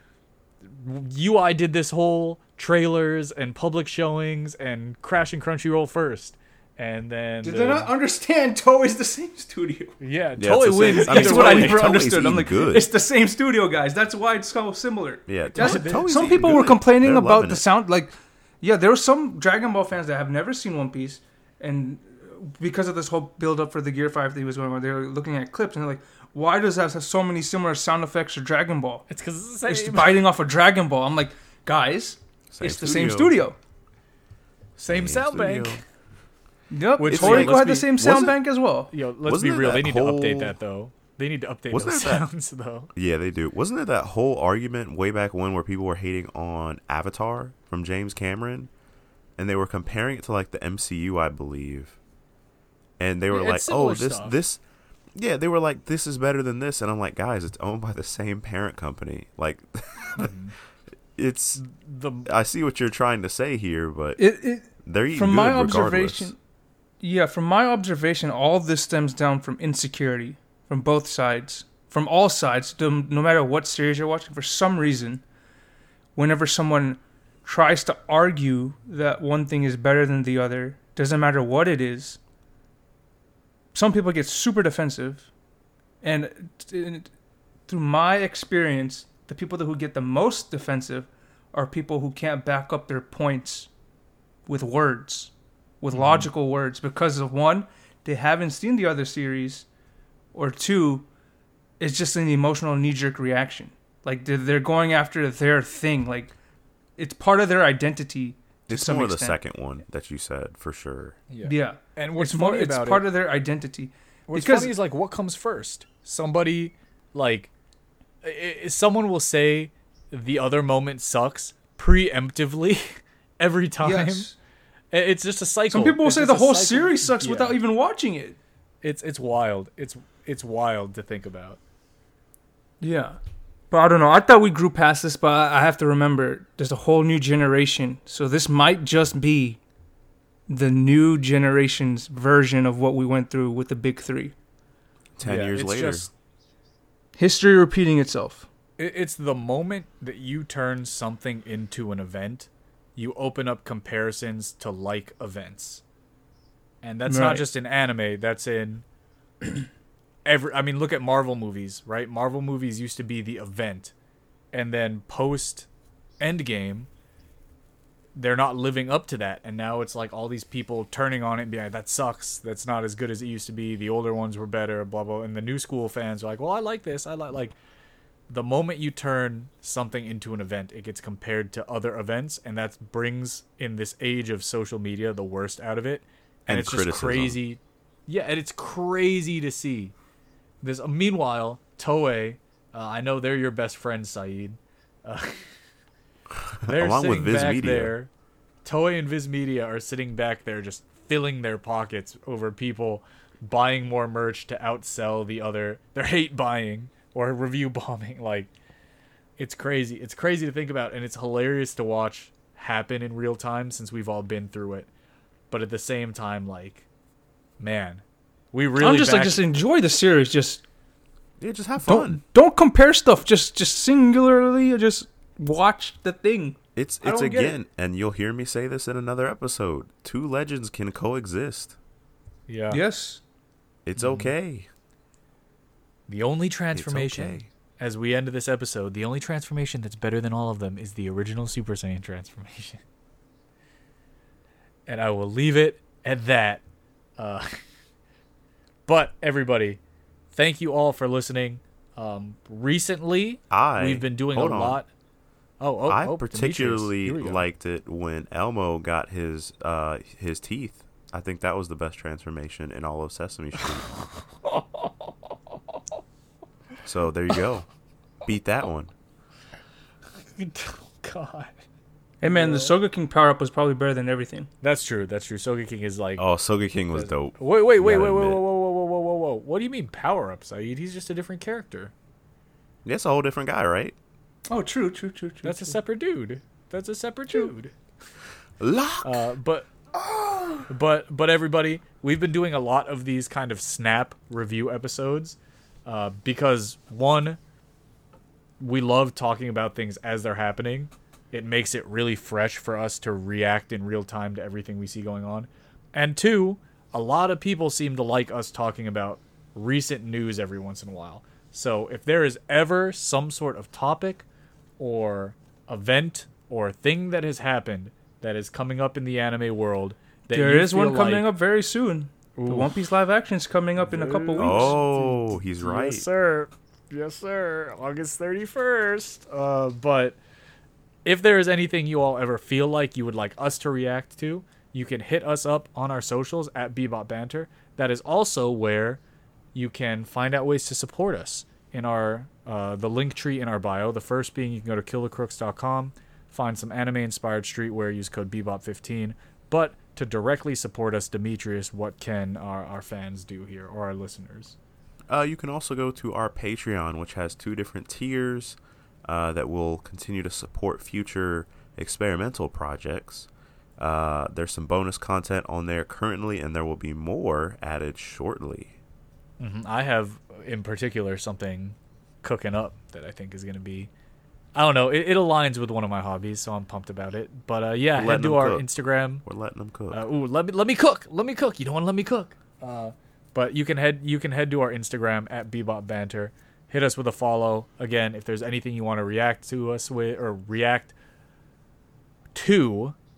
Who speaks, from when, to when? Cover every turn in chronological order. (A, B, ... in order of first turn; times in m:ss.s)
0:00.6-0:07.9 A
0:07.4-0:10.0 B
0:10.0-0:11.9 A
0:10.4-0:12.9 C
0:10.9-0:29.0 B
0:15.3-0:17.6 C
0:15.5-0:16.1 A
0:29.1-0:30.2 A
0:29.7-0:33.6 B
0:32.5-0:33.3 C
0:34.8-0:35.8 C
0:34.8-0:35.8 A
0:36.7-0:38.9 B
0:37.0-0:37.9 A
0:37.1-0:38.4 C
0:38.9-0:42.9 A
0:39.2-0:40.5 C
0:41.7-0:42.2 C
0:42.9-0:48.7 C
0:49.4-0:52.0 C
0:53.0-0:54.6 C
0:53.3-0:54.4 A
0:55.1-1:00.4 C
1:00.2-1:00.5 A
1:01.1-1:01.6 C
1:01.6-1:02.3 A
1:02.2-1:04.2 C
1:04.2-1:06.4 B
1:04.8-1:06.3 C
1:07.0-1:15.2 B
1:16.2-1:22.2 B
1:23.7-1:25.3 B
1:26.0-1:27.1 B
1:27.7-1:33.7 B
1:34.5-1:39.6 B
1:35.9-1:36.3 A
1:40.3-1:41.0 B
1:41.8-1:46.3 B
1:47.0-1:49.4 B
1:48.7-1:51.2 C
1:51.3-1:53.0 A
1:51.4-1:54.7 B
1:54.3-1:57.5 A
1:58.2-2:04.3 A
2:03.8-2:04.4 B
2:04.9-2:07.6 A
2:05.7-2:08.4 B
2:08.8-2:11.6 A
2:12.8-2:13.2 B
2:13.7-2:19.6 B
2:20.5-2:24.3 B
2:25.2-2:26.1 C
2:25.2-2:26.1 A
2:27.2-2:28.5 B
2:28.8-2:35.8 A
2:36.8-2:38.8 A
2:37.1-2:37.4 B
2:40.2-2:43.9 A
2:44.5-2:45.7 A
2:46.2-2:46.9 A
2:48.2-2:57.6 A
2:58.3-3:09.9 A
3:06.5-3:07.4 C
3:10.6-3:15.6 A
3:16.5-3:17.9 C
3:16.6-3:18.1 A
3:18.6-3:28.5 A
3:29.4-3:34.9 A
3:35.5-3:36.8 A
3:37.6-3:39.6 A
3:38.8-3:40.6 B
3:41.4-3:42.2 C
3:41.8-3:47.6 B
3:46.8-3:51.8 C
3:52.5-3:52.8 A
3:52.7-3:53.2 B
3:53.8-3:54.7 C
3:54.0-3:54.3 A
3:56.1-4:02.8 A
3:56.7-3:57.5 C
4:04.9-4:06.6 A
4:07.2-4:07.6 A
4:08.9-4:09.8 A
4:10.3-4:14.9 A
4:13.5-4:14.8 C
4:15.6-4:17.4 A
4:15.9-4:23.9 C
4:24.4-4:24.9 A
4:26.8-4:27.7 C
4:28.2-4:28.9 C
4:30.3-4:31.6 A
4:32.2-4:34.5 B
4:32.3-4:32.7 A
4:34.6-4:36.2 A
4:36.2-4:38.4 C
4:36.9-4:41.9 A
4:42.8-4:44.0 C
4:44.5-4:45.8 B
4:45.4-4:47.7 A
4:48.6-4:49.2 C
4:49.0-4:49.7 A
4:49.9-4:50.6 B
4:50.7-4:57.4 A
4:58.6-5:14.2 A
5:14.8-5:21.3 A
5:20.3-5:24.8 B
5:22.4-5:22.7 A
5:23.8-5:30.2 A
5:24.4-5:26.0 C
5:31.0-5:39.0 A
5:39.5-5:54.6 A
5:55.1-6:08.8 C
6:09.4-6:13.9 A
6:14.5-6:19.2 A
6:18.0-6:18.7 C
6:19.2-6:20.0 C
6:19.9-6:30.9 A
6:32.3-6:33.0 A